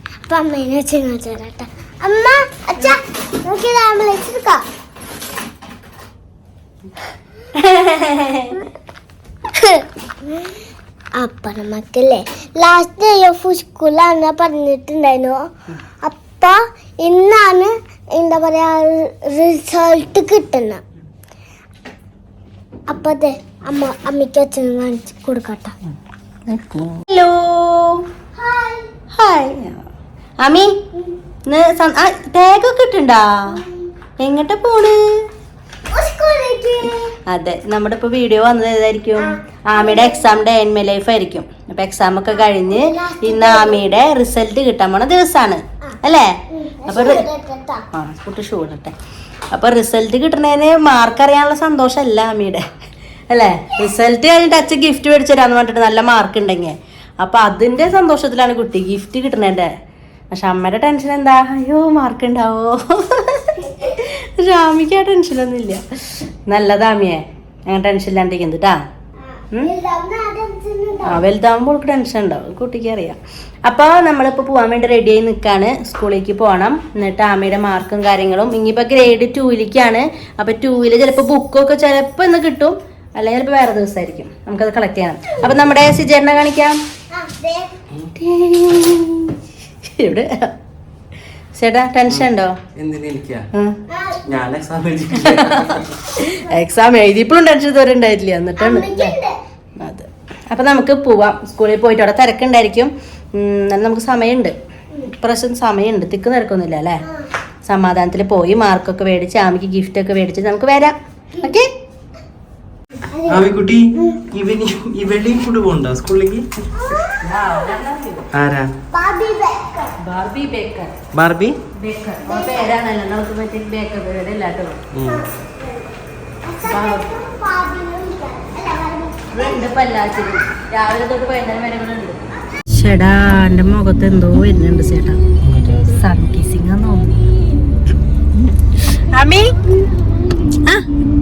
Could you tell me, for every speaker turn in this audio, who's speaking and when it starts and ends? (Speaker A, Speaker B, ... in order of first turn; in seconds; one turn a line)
Speaker A: 0.3-4.6
Speaker B: 7.5-8.7
Speaker A: 9.5-10.5
Speaker A: 11.2-15.4
Speaker A: 16.0-20.8
Speaker A: 22.9-25.8
Speaker B: 26.5-28.0
Speaker A: 28.3-28.9
Speaker B: 29.1-29.9
Speaker B: 30.4-30.7
Speaker B: 31.4-33.6
Speaker A: 33.5-33.9
Speaker B: 34.2-35.2
Speaker A: 35.9-37.1
Speaker B: 37.3-46.3
Speaker A: 39.2-40.4
Speaker A: 42.3-43.9
Speaker A: 46.5-47.8
Speaker B: 46.9-47.3
Speaker B: 47.9-48.9
Speaker B: 49.5-52.6
Speaker B: 53.3-59.7
Speaker B: 60.3-68.8
Speaker A: 69.3-71.2
Speaker B: 71.0-86.8
Speaker A: 87.1-87.7
Speaker B: 88.2-90.5
Speaker B: 91.5-92.6
Speaker C: 92.1-93.5
Speaker B: 93.5-93.8
Speaker A: 93.9-94.2
Speaker C: 94.2-95.9
Speaker B: 95.2-99.2
Speaker A: 98.6-99.3
Speaker B: 99.8-104.5
Speaker B: 105.0-107.0
Speaker B: 107.6-111.7
Speaker A: 113.0-114.2
Speaker C: 113.2-116.5
Speaker A: 116.8-117.2
Speaker B: 117.2-118.3
Speaker C: 118.3-118.7
Speaker A: 118.9-119.9
Speaker B: 120.0-121.0
Speaker C: 121.1-121.5
Speaker B: 121.7-124.8
Speaker A: 122.2-122.7
Speaker C: 124.9-125.3
Speaker A: 125.0-125.9
Speaker A: 126.4-129.7
Speaker B: 126.6-127.1
Speaker B: 129.3-135.2
Speaker C: 135.4-135.9
Speaker B: 135.8-137.3
Speaker B: 139.1-139.6
Speaker A: 139.7-140.6